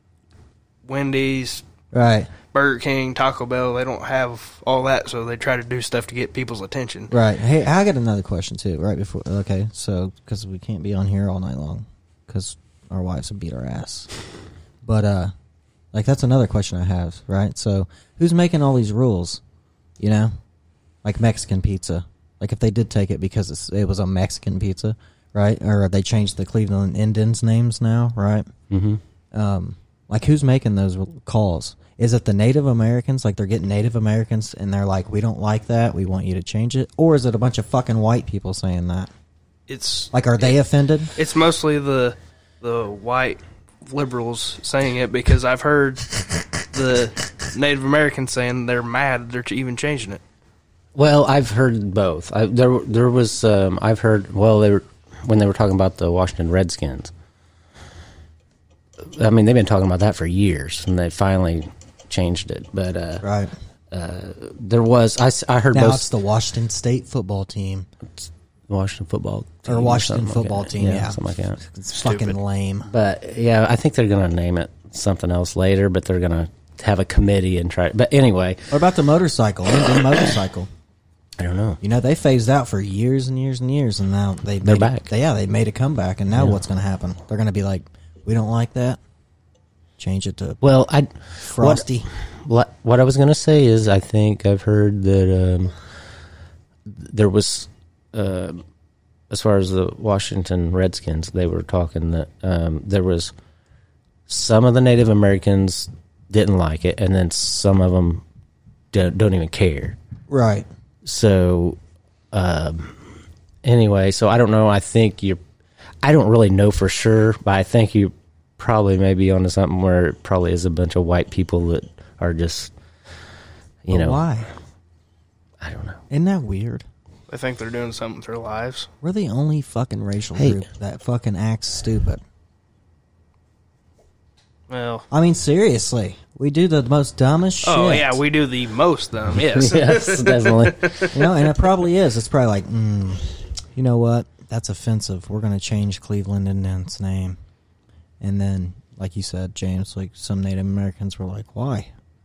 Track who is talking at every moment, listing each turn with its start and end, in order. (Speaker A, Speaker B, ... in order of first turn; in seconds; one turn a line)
Speaker A: 0.9-1.6
Speaker B: 1.9-2.3
Speaker A: 2.5-7.1
Speaker B: 7.1-14.1
Speaker B: 14.8-15.3
Speaker B: 15.9-19.4
Speaker B: 20.0-20.3
Speaker B: 21.0-28.5
Speaker C: 28.7-29.0
Speaker B: 29.3-39.1
Speaker A: 39.7-40.6
Speaker B: 40.1-41.1
Speaker A: 41.1-50.2
Speaker C: 51.0-57.1
Speaker C: 59.0-63.2
Speaker B: 63.2-63.5
Speaker C: 63.9-66.1
Speaker B: 65.7-67.9
Speaker C: 68.2-71.6
Speaker B: 69.7-72.9
Speaker A: 71.9-72.4
Speaker C: 72.9-78.8
Speaker B: 78.7-80.7
Speaker C: 81.4-81.8
Speaker B: 81.8-89.0
Speaker C: 84.6-85.1
Speaker C: 86.3-86.6
Speaker B: 90.0-90.6
Speaker C: 90.6-95.7
Speaker B: 91.4-92.1
Speaker C: 96.8-98.6
Speaker C: 99.3-103.3
Speaker C: 104.3-108.2
Speaker C: 108.9-110.0
Speaker B: 110.3-110.7
Speaker C: 111.0-111.8
Speaker C: 112.3-113.0
Speaker C: 113.6-115.4
Speaker C: 116.0-122.7
Speaker C: 123.8-124.2
Speaker B: 123.9-124.5
Speaker C: 125.6-126.0
Speaker B: 126.1-126.8
Speaker A: 127.3-128.9
Speaker B: 129.0-132.2
Speaker C: 130.4-130.6
Speaker A: 134.7-135.1
Speaker B: 135.1-138.2
Speaker A: 137.6-141.2
Speaker C: 139.3-141.2
Speaker B: 141.1-147.4
Speaker B: 148.2-151.9